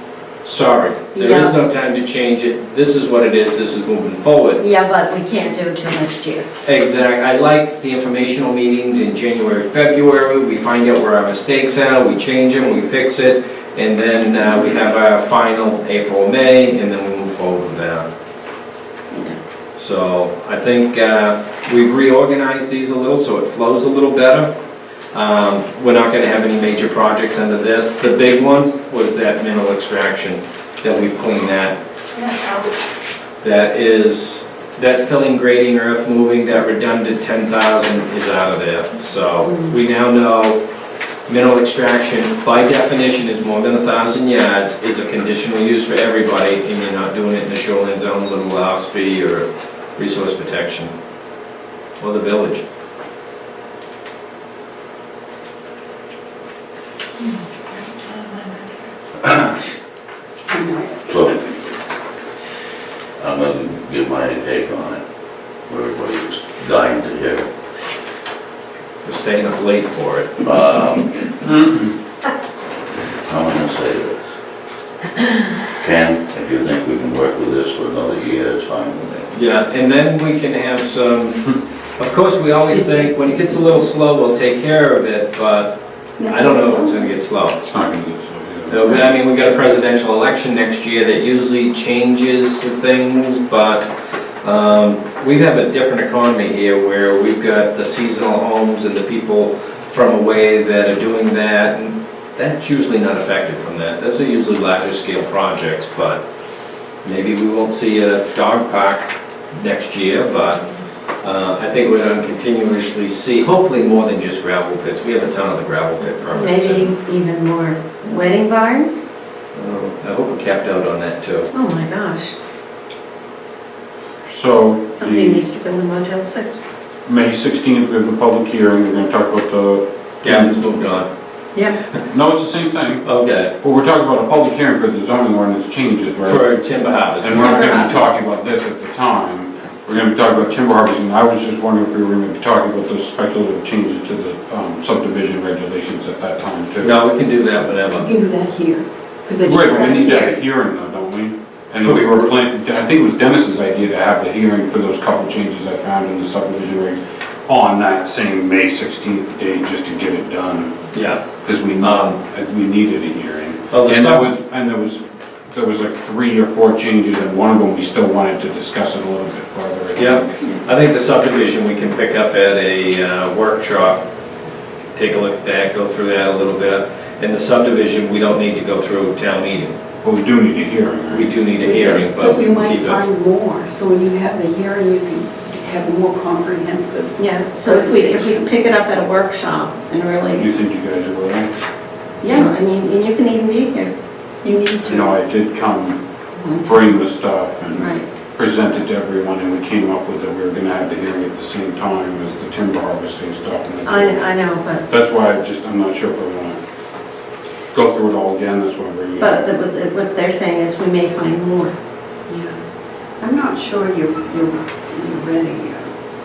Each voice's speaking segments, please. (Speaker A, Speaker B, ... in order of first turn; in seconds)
Speaker A: 0.4-4.6, 6.7-18.1, 19.8-24.5, 25.1-31.8, 33.4-40.6, 41.3-50.9, 52.0-52.6, 69.0-70.5, 79.3-87.6, 88.7-93.9, 94.4-106.2, 107.0-110.6, 111.2-116.9, 119.5-121.5, 130.2-131.1, 133.0-133.5, 136.2-137.8, 146.8-148.1, 151.8-152.3, 160.9-161.2, 161.8-162.2, 163.7-164.3, 169.9-174.0, 174.9-179.7, 181.1-183.0
Speaker B: 1.1-1.5, 4.6-6.5, 19.1-19.4, 32.3-32.5, 39.5-39.7, 116.3-119.0, 121.5-122.3, 124.9-126.6, 137.4-137.9, 187.2-190.4, 192.2-193.9, 196.4-196.8, 197.8-198.0, 203.8-204.8, 209.2-211.7
Speaker C: 60.5-61.0, 86.2-87.0, 148.0-150.3, 181.6-188.5, 194.4-195.1, 212.3-212.6, 213.2-215.9
Speaker D: 61.1-61.4, 63.2-65.0, 65.7-67.5, 70.4-71.2, 73.1-74.3, 75.8-79.3
Speaker E: 71.4-71.9, 87.6-89.0, 124.3-125.4, 127.0-130.6, 132.1-136.5, 137.2-146.9, 149.4-160.8, 161.4-170.4, 180.0-181.4, 190.3-191.5, 194.8-196.0, 196.6-206.6, 207.7-209.5